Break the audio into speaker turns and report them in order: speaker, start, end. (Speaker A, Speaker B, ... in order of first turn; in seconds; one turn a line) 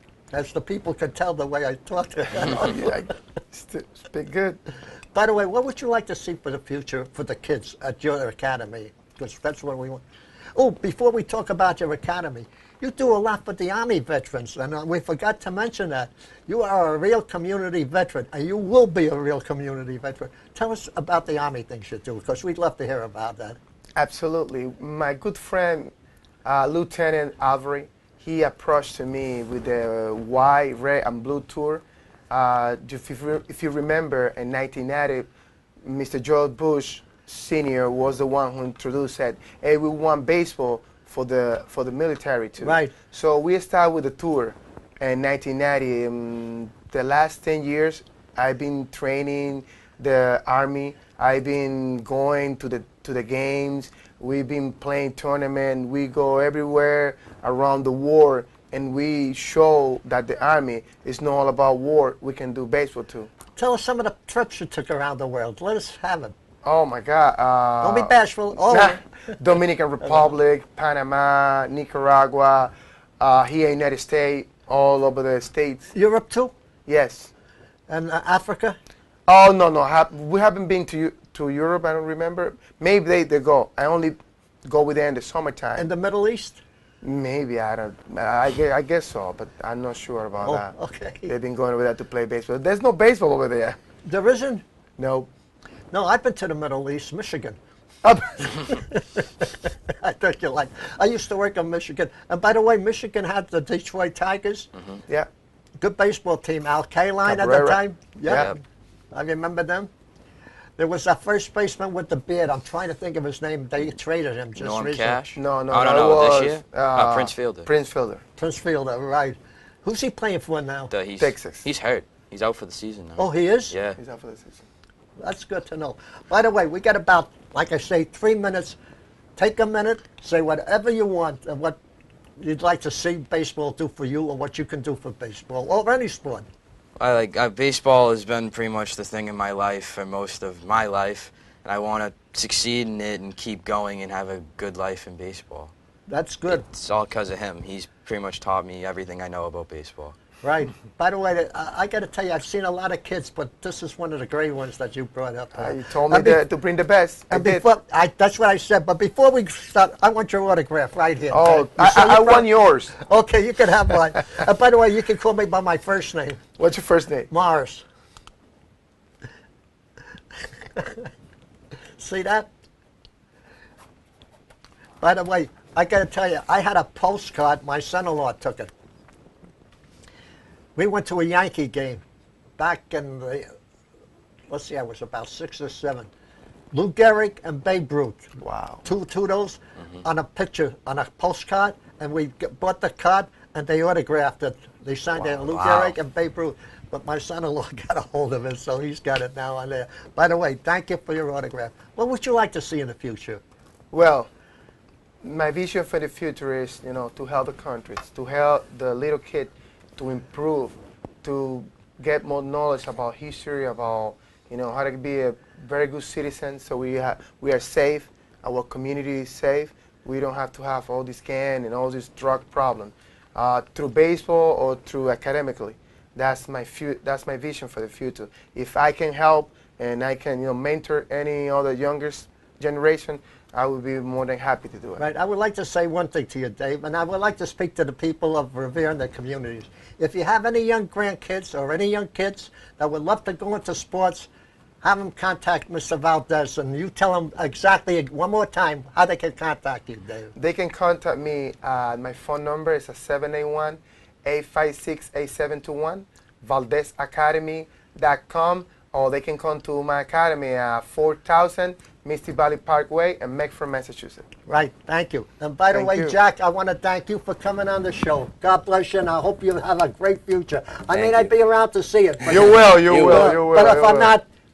Speaker A: 0.3-3.0
Speaker B: 2.4-4.6
Speaker A: 5.1-10.0
Speaker A: 10.6-23.6
Speaker B: 24.0-25.9
Speaker B: 26.4-35.3
Speaker B: 35.8-63.3
Speaker A: 42.6-42.9
Speaker A: 63.6-66.3
Speaker B: 66.6-75.9
Speaker A: 67.8-69.4
Speaker A: 75.9-76.5
Speaker B: 76.9-77.3
Speaker A: 77.9-78.8
Speaker B: 79.3-85.9
Speaker A: 85.8-86.6
Speaker B: 87.0-90.8
Speaker A: 90.4-91.3
Speaker B: 91.3-93.8
Speaker A: 94.0-94.6
Speaker B: 95.0-95.3
Speaker A: 95.9-104.7
Speaker A: 105.8-108.6
Speaker B: 107.2-108.5
Speaker C: 108.3-108.6
Speaker A: 109.1-109.9
Speaker A: 110.8-115.2
Speaker C: 114.6-117.7
Speaker B: 115.4-118.2
Speaker A: 118.4-120.9
Speaker C: 120.9-124.0
Speaker B: 121.2-121.6
Speaker A: 123.2-123.7
Speaker B: 124.0-124.6
Speaker A: 125.2-128.8
Speaker A: 129.4-131.8
Speaker A: 132.4-136.5
Speaker C: 137.0-145.7
Speaker A: 146.1-146.6
Speaker C: 146.5-150.2
Speaker A: 150.4-156.4
Speaker B: 155.6-157.6
Speaker A: 157.3-166.4
Speaker B: 161.3-163.0
Speaker B: 166.6-167.3
Speaker A: 167.3-167.8
Speaker A: 170.8-171.1
Speaker A: 172.0-172.5
Speaker A: 175.0-178.7
Speaker A: 180.8-182.0
Speaker A: 182.6-183.5
Speaker A: 184.5-186.1
Speaker A: 186.7-203.4
Speaker B: 188.4-188.8
Speaker C: 195.4-195.9
Speaker B: 203.9-204.3
Speaker B: 205.2-235.0
Speaker A: 235.0-244.3
Speaker A: 244.8-250.3
Speaker B: 250.3-264.2
Speaker A: 264.5-274.2
Speaker B: 265.7-266.2
Speaker C: 270.9-271.3
Speaker C: 272.2-273.4
Speaker B: 272.3-274.1